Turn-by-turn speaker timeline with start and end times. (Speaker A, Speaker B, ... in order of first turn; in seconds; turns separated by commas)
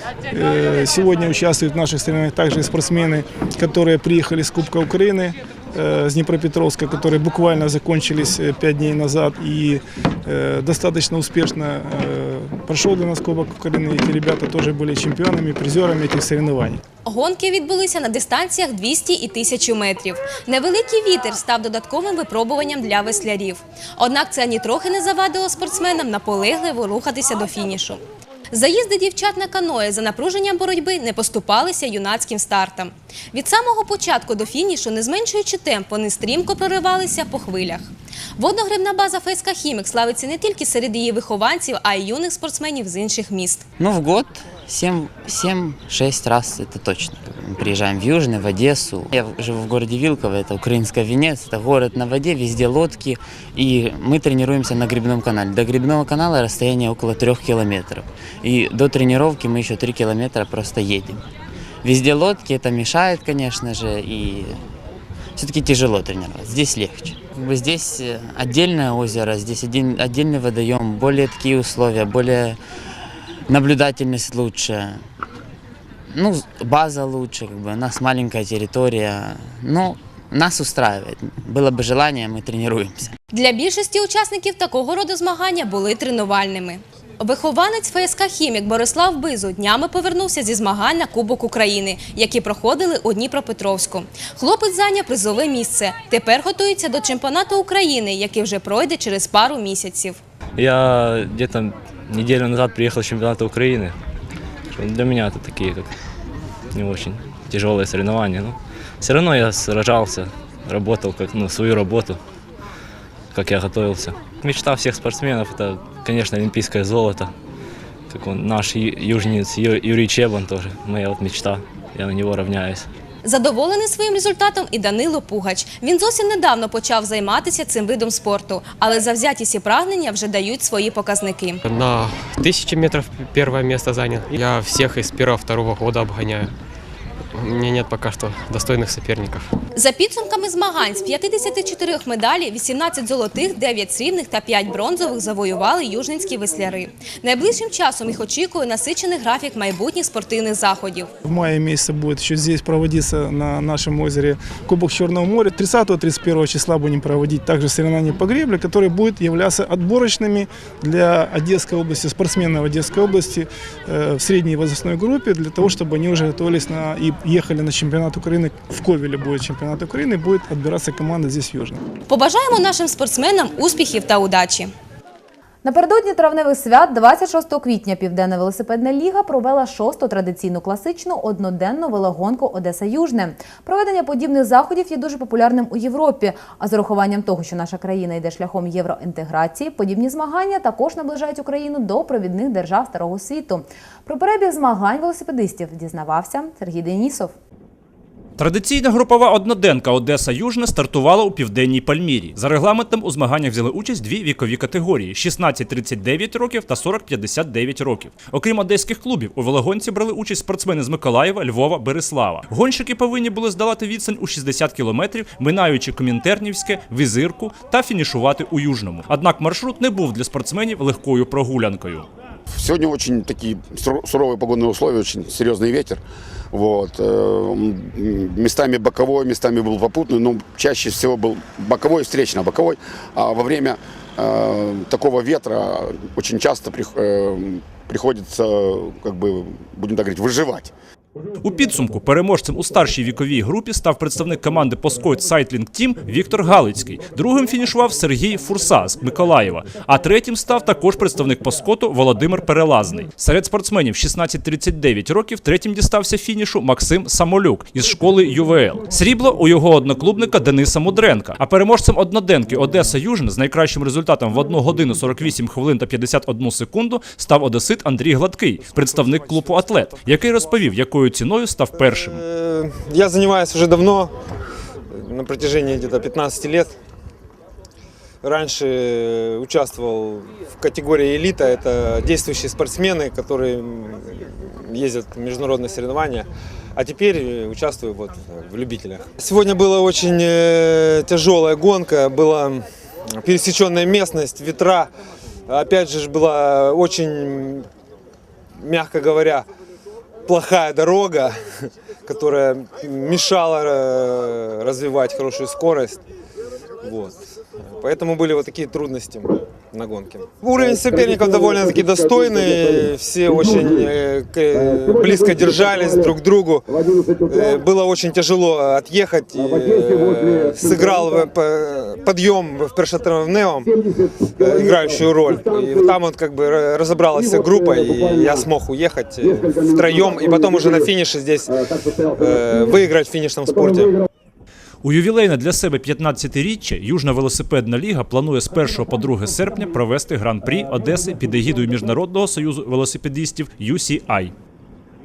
Speaker A: 0.3-16.8, Speaker B: 17.1-43.6, Speaker C: 43.8-61.2, Speaker C: 61.8-64.6, Speaker C: 65.4-72.6, Speaker C: 73.5-75.0, Speaker C: 76.1-83.2, Speaker B: 83.3-100.2, Speaker D: 100.6-104.0, Speaker D: 104.7-105.9, Speaker D: 106.7-112.2, Speaker D: 113.3-117.3, Speaker D: 118.1-122.9, Speaker B: 123.2-131.6, Speaker E: 131.7-136.5, Speaker E: 137.3-139.5, Speaker B: 139.8-151.1, Speaker A: 151.3-171.8, Speaker B: 172.1-174.7, Speaker F: 175.6-197.3, Speaker G: 198.4-222.1, Speaker H: 222.5-240.7, Speaker G: 241.4-272.2, Speaker I: 271.8-274.2, Speaker I: 274.9-276.8, Speaker I: 278.2-294.9, Speaker I: 295.5-297.7, Speaker I: 298.6-299.5, Speaker I: 300.3-306.0, Speaker I: 306.8-316.6, Speaker I: 317.3-323.7, Speaker I: 324.4-331.6, Speaker I: 332.1-333.9, Speaker G: 334.8-344.3